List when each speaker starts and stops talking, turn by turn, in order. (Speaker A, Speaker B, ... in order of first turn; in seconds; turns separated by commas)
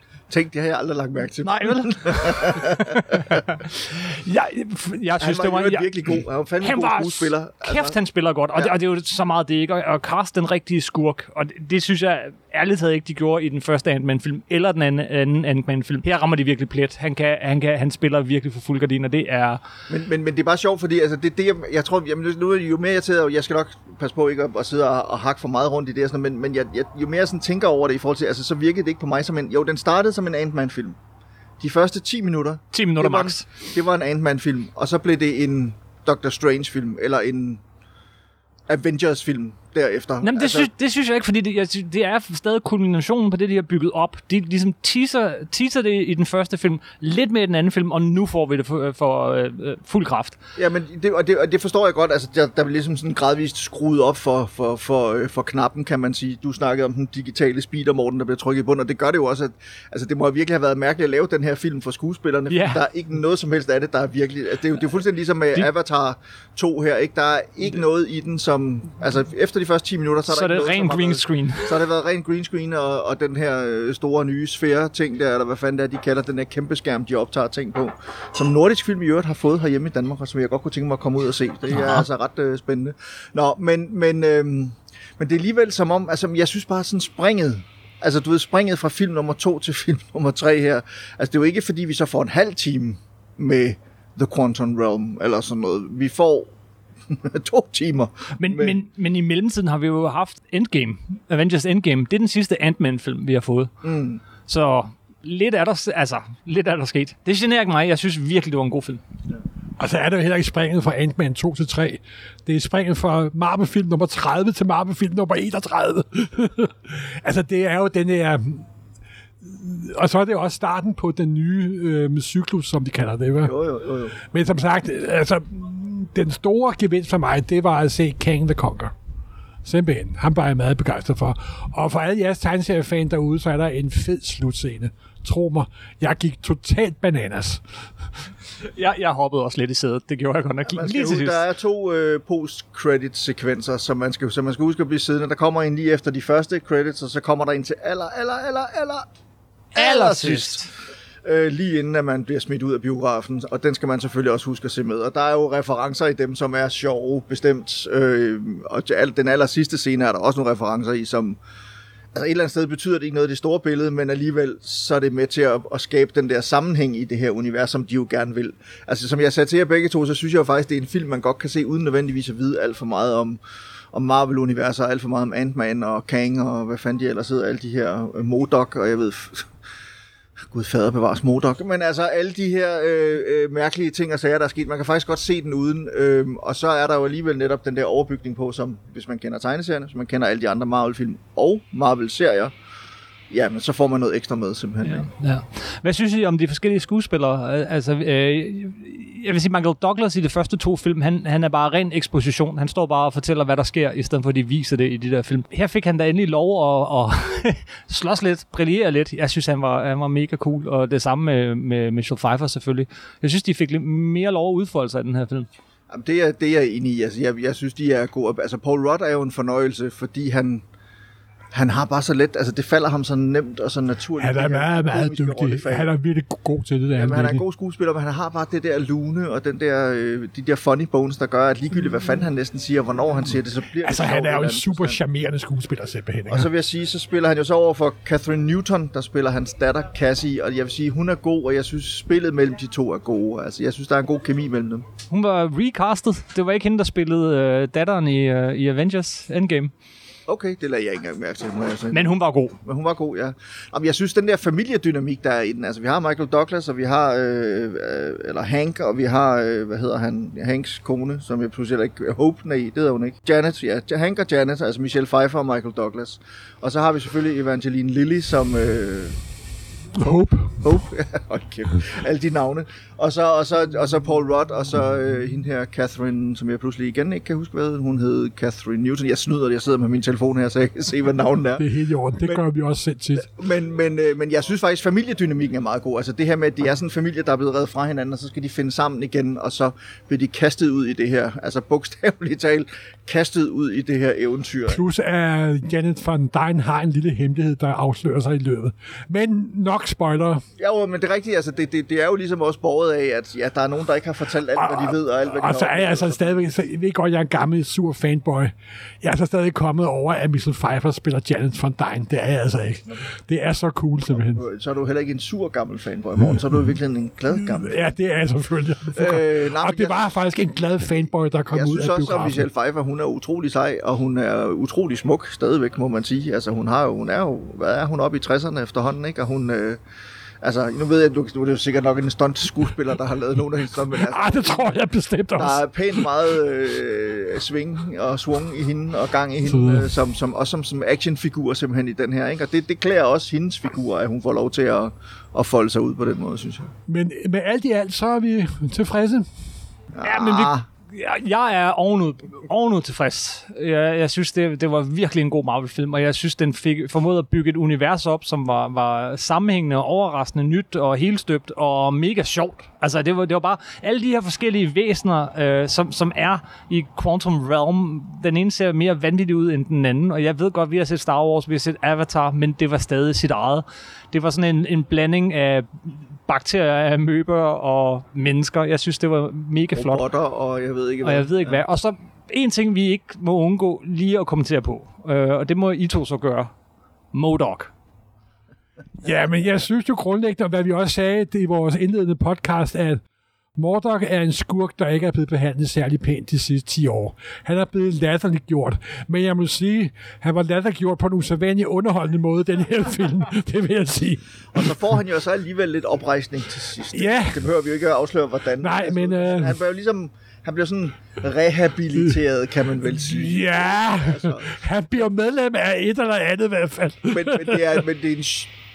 Speaker A: 0.3-3.4, Speaker B: 1.4-5.9, Speaker A: 5.2-7.9, Speaker B: 6.6-19.6, Speaker A: 19.9-31.0, Speaker A: 31.6-37.6, Speaker B: 32.7-33.5, Speaker A: 38.7-40.7, Speaker B: 40.2-50.4, Speaker A: 50.6-96.5, Speaker B: 62.5-62.8, Speaker B: 70.3-71.8, Speaker B: 81.8-82.0, Speaker A: 97.1-98.8, Speaker B: 98.4-103.7, Speaker A: 103.8-104.2, Speaker B: 104.5-109.0, Speaker C: 109.8-118.7, Speaker C: 119.4-123.5, Speaker A: 123.4-124.2, Speaker C: 124.2-128.9, Speaker C: 129.7-137.6, Speaker B: 138.7-141.4, Speaker A: 140.7-149.1, Speaker A: 149.8-150.7, Speaker B: 149.8-150.7, Speaker A: 151.2-161.4, Speaker A: 162.2-173.4, Speaker A: 173.9-179.5, Speaker A: 180.5-192.5, Speaker A: 193.3-195.1, Speaker B: 194.8-215.5, Speaker A: 215.9-220.6, Speaker A: 221.5-225.9, Speaker C: 224.2-227.4, Speaker A: 226.9-235.0, Speaker C: 233.8-236.5, Speaker A: 236.3-244.9, Speaker B: 245.1-249.7, Speaker A: 250.3-269.2, Speaker B: 251.9-252.6, Speaker C: 270.0-270.6, Speaker A: 270.1-281.7, Speaker C: 281.6-283.3, Speaker A: 283.2-294.8, Speaker C: 294.7-300.4, Speaker A: 300.6-306.4, Speaker C: 304.6-314.4, Speaker A: 314.1-317.8, Speaker C: 317.3-322.5, Speaker A: 318.9-320.1, Speaker A: 321.5-329.8, Speaker A: 330.4-334.7, Speaker C: 334.0-336.1, Speaker A: 335.4-346.7, Speaker C: 339.4-339.9, Speaker C: 346.9-349.3, Speaker A: 349.9-350.7, Speaker B: 350.0-380.0, Speaker A: 379.7-381.6, Speaker B: 381.0-386.5, Speaker B: 387.1-387.7, Speaker C: 389.0-393.0, Speaker C: 393.6-404.8, Speaker A: 404.5-414.6, Speaker C: 406.9-407.4, Speaker C: 408.6-409.6, Speaker C: 412.8-417.8, Speaker A: 417.1-418.5